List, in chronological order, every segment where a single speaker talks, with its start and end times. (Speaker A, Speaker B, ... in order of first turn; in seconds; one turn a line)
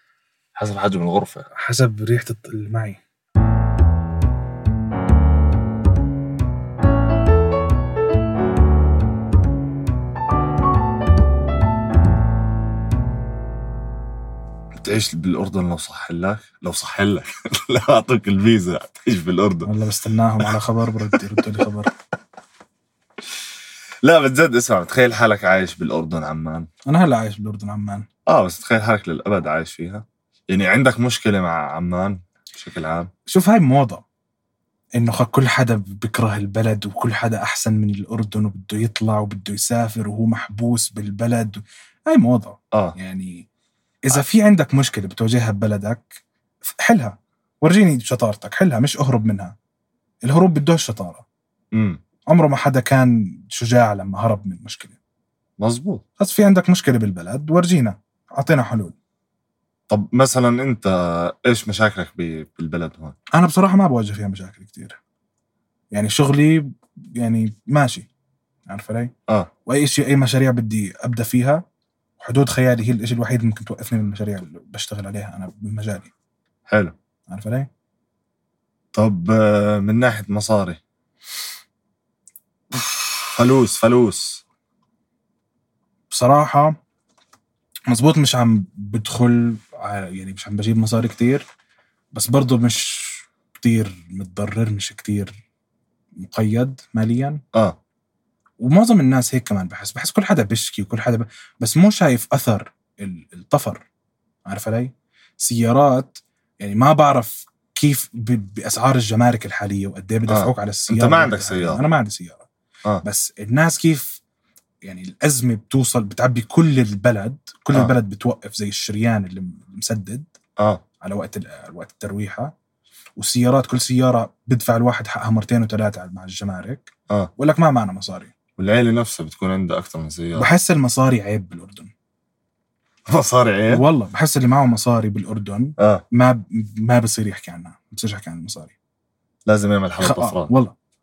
Speaker A: 0.6-1.5
Speaker B: 1.6-3.0
Speaker A: 14.8-19.7
Speaker B: 19.6-21.9
Speaker A: 24.0-26.7
Speaker B: 26.9-28.1
Speaker A: 28.3-33.1
Speaker B: 33.3-34.0
Speaker B: 35.0-43.5
Speaker B: 44.1-46.2
Speaker B: 46.8-49.5
Speaker B: 50.2-51.2
Speaker A: 51.7-52.0
Speaker B: 52.3-55.0
Speaker A: 55.6-56.0
Speaker B: 56.2-59.0
Speaker A: 59.9-63.1
Speaker B: 63.4-65.0
Speaker B: 65.9-68.1
Speaker B: 68.7-69.1
Speaker B: 69.7-71.6
Speaker B: 72.2-76.1
Speaker A: 76.7-76.9
Speaker B: 77.3-77.7
Speaker A: 79.0-80.8
Speaker A: 82.8-84.4
Speaker B: 86.1-86.8
Speaker B: 87.9-91.5
Speaker B: 92.1-95.4
Speaker B: 96.2-97.4
Speaker B: 98.6-103.8
Speaker B: 104.5-112.5
Speaker A: 110.3-111.8
Speaker B: 113.0-114.2
Speaker B: 114.8-120.3
Speaker B: 121.0-122.5
Speaker B: 123.2-128.3
Speaker A: 128.6-130.5
Speaker B: 130.4-131.9
Speaker A: 133.1-133.8
Speaker B: 133.7-138.7
Speaker A: 135.8-136.0
Speaker A: 139.5-140.5
Speaker B: 140.0-140.7